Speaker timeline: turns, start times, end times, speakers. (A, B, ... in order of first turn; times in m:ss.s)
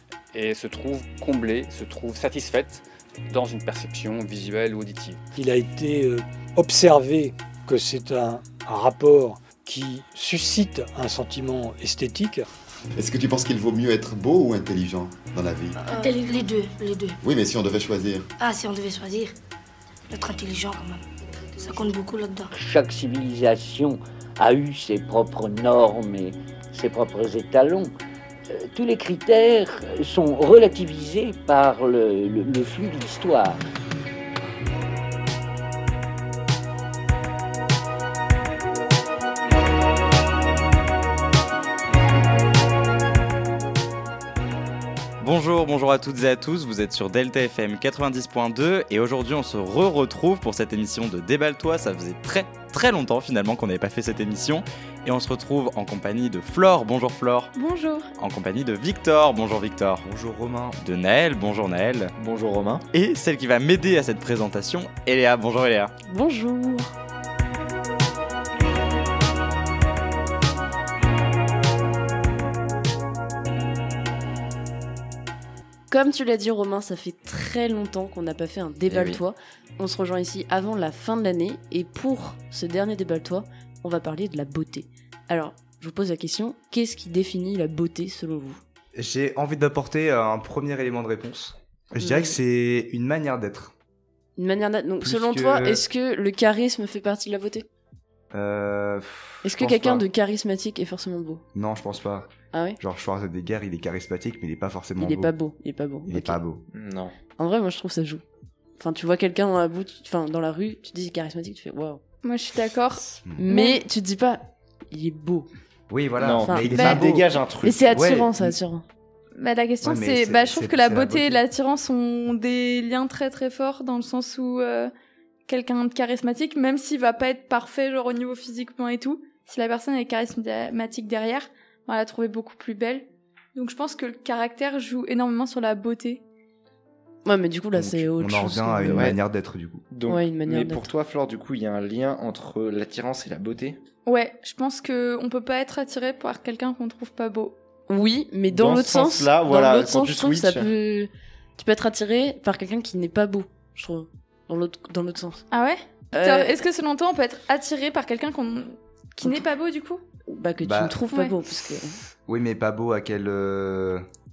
0:00.3-0:05.2 A
0:05.3-0:12.5 B
0:13.0-0:15.8 C
0:15.8-0:16.1 D
0:15.8-0:17.2 E
0:17.2-0:18.3 C
0:18.4-0:19.3 E
0:20.1-0:21.0 E
0:21.5-0:22.5 E
0:22.5-0:27.9 F
0:28.5-0:33.6 F
0:45.2-0:57.5 G
0:57.5-0:58.1 D
0:58.2-1:00.0 G
1:00.0-1:00.8 H
1:00.8-1:02.1 G
1:02.2-1:02.8 I
1:02.9-1:05.9 G
1:06.1-1:06.9 J
1:15.9-1:28.6 J
1:18.9-1:19.2 I
1:28.9-1:33.7 H
1:32.0-1:32.4 J
1:34.4-1:37.7 J
1:35.0-1:35.8 H
1:38.3-1:40.1 H
1:39.4-1:41.4 J
1:41.5-1:45.3 H
1:42.5-1:42.8 J
1:45.0-1:46.4 J
1:46.0-1:46.6 H
1:46.7-1:47.1 I
1:47.4-1:48.2 J
1:48.8-1:52.0 J
1:52.2-1:53.8 D
1:53.2-1:53.5 H
1:53.4-1:55.5 J
1:55.9-1:57.3 H
1:56.2-1:58.0 I
1:56.4-1:57.0 J
1:57.6-1:58.8 J
1:57.9-1:58.5 H
1:59.4-2:04.9 D
1:59.8-2:01.4 H
2:05.5-2:16.2 D
2:17.2-2:19.1 J
2:17.7-2:19.8 H
2:18.9-2:19.2 I
2:19.9-2:23.8 I
2:20.1-2:20.9 J
2:24.0-2:27.6 D
2:27.9-2:35.4 J
2:28.5-2:30.7 I
2:35.5-2:40.0 D
2:36.1-2:36.6 J
2:40.3-2:42.0 J
2:40.6-2:41.0 H
2:41.7-2:44.0 H